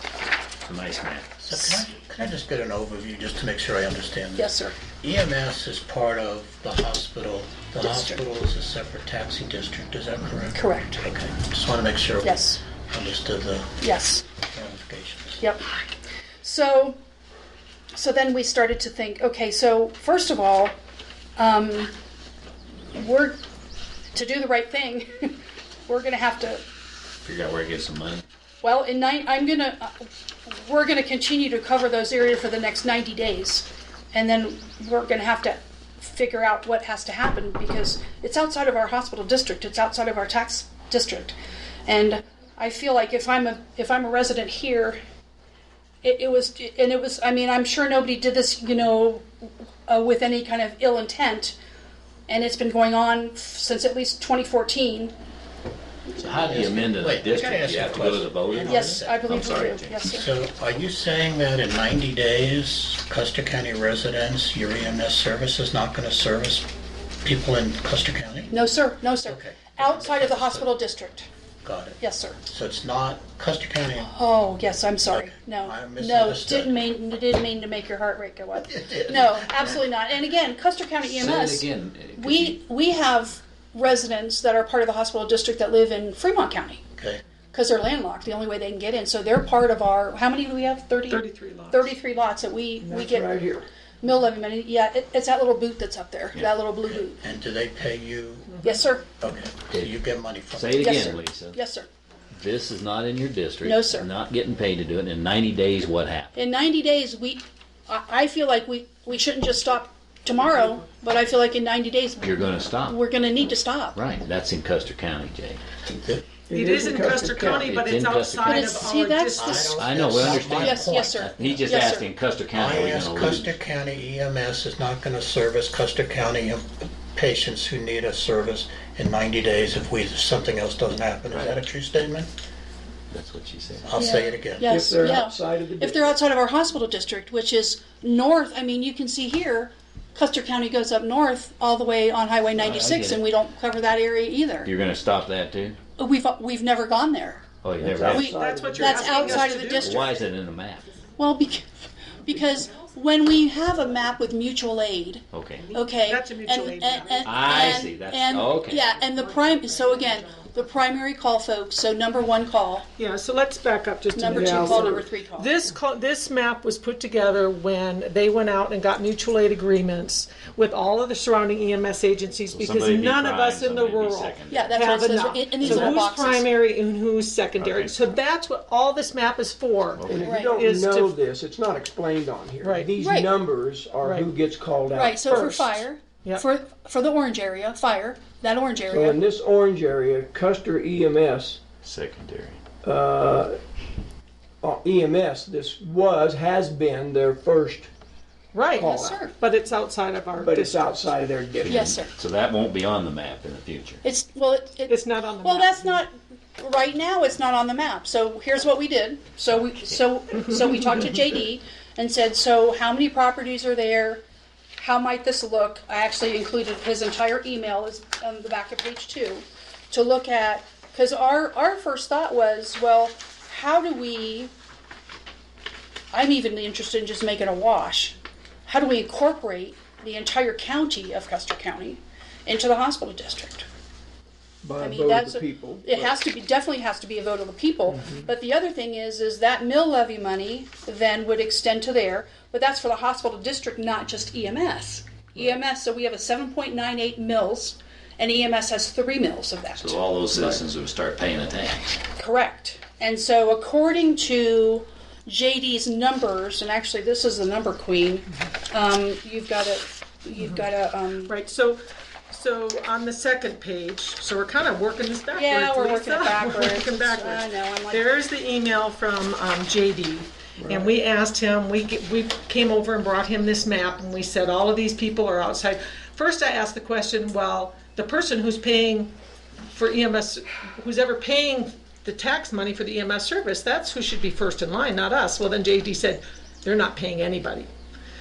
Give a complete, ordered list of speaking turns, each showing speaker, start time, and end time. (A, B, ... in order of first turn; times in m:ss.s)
0:00.7-0:01.4 A
0:01.4-0:13.8 B
0:01.6-0:01.9 C
0:04.4-0:04.8 C
0:07.8-0:08.2 C
0:10.5-0:11.0 C
0:12.2-0:12.6 C
0:13.8-0:14.2 C
0:14.5-0:15.4 B
0:16.4-0:17.0 C
0:17.9-0:20.7 C
0:21.4-0:21.9 C
0:22.9-0:23.4 C
0:24.1-0:26.6 C
0:27.2-0:28.2 A
0:28.6-0:41.4 C
0:41.9-0:45.0 C
0:46.0-0:49.2 C
0:49.9-0:51.6 C
0:52.3-0:55.1 C
0:56.2-1:00.0 A
0:56.4-0:59.4 B
0:58.7-1:00.3 C
1:00.0-1:06.7 B
1:07.2-1:08.5 B
1:08.5-1:11.3 C
1:09.3-1:10.8 B
1:11.6-1:14.1 B
1:12.0-1:12.4 C
1:14.0-1:26.8 C
1:15.0-1:16.8 B
1:18.6-1:19.8 B
1:21.0-1:22.6 A
1:27.0-1:27.2 B
1:27.5-1:33.4 C
1:31.1-1:31.9 D
1:32.8-1:33.7 E
1:34.0-1:37.2 C
1:36.9-1:38.6 B
1:38.5-1:38.9 D
1:38.6-1:39.0 C
1:39.2-1:41.0 B
1:40.5-1:41.6 A
1:40.8-1:41.9 C
1:42.4-1:46.3 A
1:43.6-1:44.1 C
1:46.4-1:54.0 C
1:52.2-1:53.0 A
1:54.0-1:55.6 A
1:55.8-1:56.3 B
1:56.5-1:57.7 E
1:56.5-1:59.8 D
1:57.6-1:58.9 A
1:58.4-2:02.0 C
1:59.4-2:01.6 B
1:59.8-2:03.5 A
2:02.5-2:12.3 B
2:13.1-2:13.9 A
2:13.9-2:14.8 B
2:14.0-2:24.7 C
2:14.6-2:16.2 E
2:22.6-2:23.2 A
2:24.6-2:25.8 A
2:26.0-2:27.5 C
2:27.6-2:28.3 A
2:27.8-2:29.6 E
2:28.1-2:30.1 C
2:28.1-2:30.0 D
2:29.8-2:30.9 A
2:31.2-2:31.7 C
2:32.2-2:42.8 C
2:35.3-2:35.7 A
2:35.9-2:37.4 D
2:37.2-2:38.8 A
2:43.0-3:01.2 D
2:44.1-2:45.5 C
2:44.3-2:44.8 E
2:52.5-2:55.0 A
2:54.5-2:56.5 C
2:57.6-2:58.1 A
3:00.0-3:00.3 A
3:00.0-3:05.6 E
3:00.2-3:00.6 C
3:02.6-3:02.9 D
3:03.0-3:03.3 C
3:04.0-3:04.3 D
3:04.9-3:09.2 C
3:05.3-3:06.4 D
3:08.9-3:11.6 E
3:11.8-3:12.6 A
3:12.8-3:13.6 E
3:14.6-3:17.9 E
3:18.5-3:21.2 D
3:18.8-3:19.2 E
3:18.8-3:19.4 C
3:20.4-3:21.9 E
3:21.6-3:24.0 A
3:21.6-3:22.1 C
3:24.0-3:34.2 C
3:24.9-3:26.0 D
3:34.8-3:44.5 C
3:46.1-3:53.7 C
3:54.6-3:56.2 E
3:54.8-4:10.0 C
4:09.8-4:11.9 A
4:12.2-4:21.3 C
4:21.3-4:39.1 D
4:25.3-4:28.0 C
4:30.6-4:30.9 E
4:39.7-4:47.7 D